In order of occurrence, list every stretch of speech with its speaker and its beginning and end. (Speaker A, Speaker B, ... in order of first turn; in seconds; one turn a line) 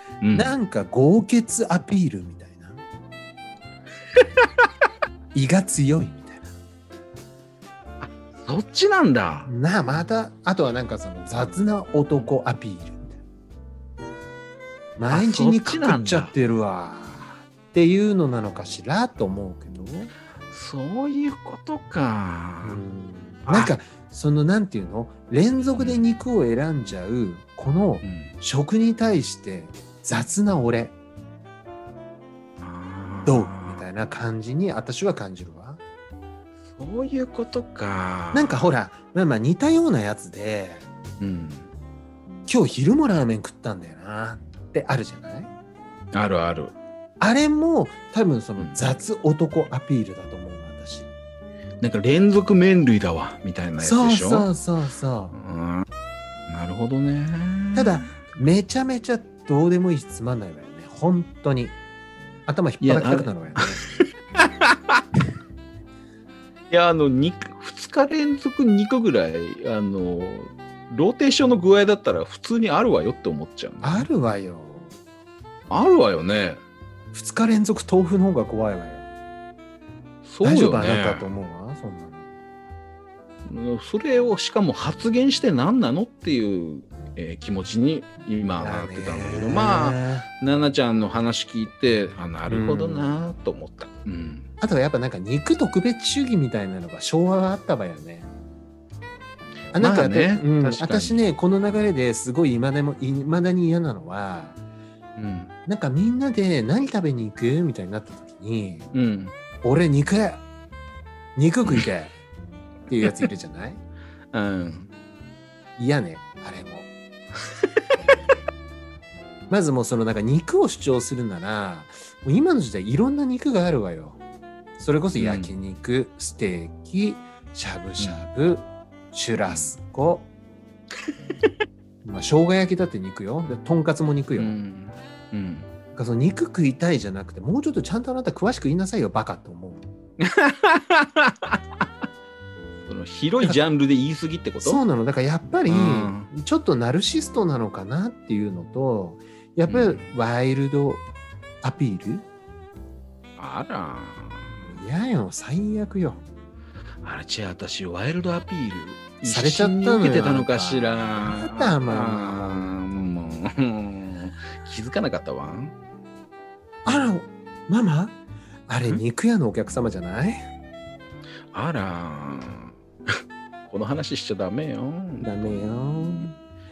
Speaker A: 0.2-0.6
Speaker B: 0.3-2.8
Speaker A: 4.2-4.7
Speaker B: 5.3-6.5
Speaker A: 8.0-9.5
Speaker B: 9.4-13.2
Speaker B: 15.0-20.1
Speaker A: 15.1-16.3
Speaker A: 20.5-22.8
Speaker B: 22.6-30.9
Speaker A: 23.4-23.7
Speaker A: 25.8-26.0
Speaker A: 28.0-28.3
Speaker A: 32.6-33.9
Speaker B: 33.2-35.8
Speaker A: 36.7-38.7
Speaker B: 38.3-40.9
Speaker A: 41.2-41.7
Speaker B: 42.5-45.5
Speaker A: 46.1-46.7
Speaker B: 47.2-51.1
Speaker A: 48.6-49.0
Speaker A: 51.8-54.5
Speaker B: 53.8-55.4
Speaker A: 55.3-55.9
Speaker A: 56.5-58.0
Speaker B: 57.7-61.8
Speaker B: 62.5-63.8
Speaker A: 62.8-65.0
Speaker A: 66.7-74.1
Speaker B: 73.8-74.9
Speaker A: 75.7-76.6
Speaker B: 77.1-79.0
Speaker A: 80.2-81.3
Speaker B: 80.4-82.2
Speaker A: 83.4-94.5
Speaker B: 88.6-90.3
Speaker B: 92.5-93.2
Speaker B: 94.6-98.3
Speaker B: 99.7-104.6
Speaker A: 99.8-101.2
Speaker A: 105.2-105.5
Speaker B: 105.7-108.9
Speaker A: 108.9-109.3
Speaker B: 109.6-110.4
Speaker B: 111.3-112.1
Speaker B: 112.9-113.8
Speaker A: 113.0-113.3
Speaker A: 114.3-114.9
Speaker B: 115.8-116.9
Speaker B: 119.5-124.2
Speaker B: 124.8-130.3
Speaker A: 125.2-125.5
Speaker A: 128.0-128.3
Speaker A: 129.5-129.8
Speaker A: 131.0-131.5
Speaker B: 132.0-134.6
Speaker A: 134.4-135.7
Speaker B: 135.9-139.9
Speaker A: 140.2-141.8
Speaker A: 142.8-144.8
Speaker B: 144.6-151.0
Speaker A: 145.7-146.3
Speaker A: 149.7-150.1
Speaker B: 151.6-152.2
Speaker A: 153.4-154.8
Speaker B: 154.6-156.2
Speaker A: 157.0-165.7
Speaker B: 159.2-162.8
Speaker B: 166.8-168.2
Speaker B: 168.7-170.5
Speaker A: 171.5-172.8
Speaker A: 173.6-175.3
Speaker B: 175.2-176.3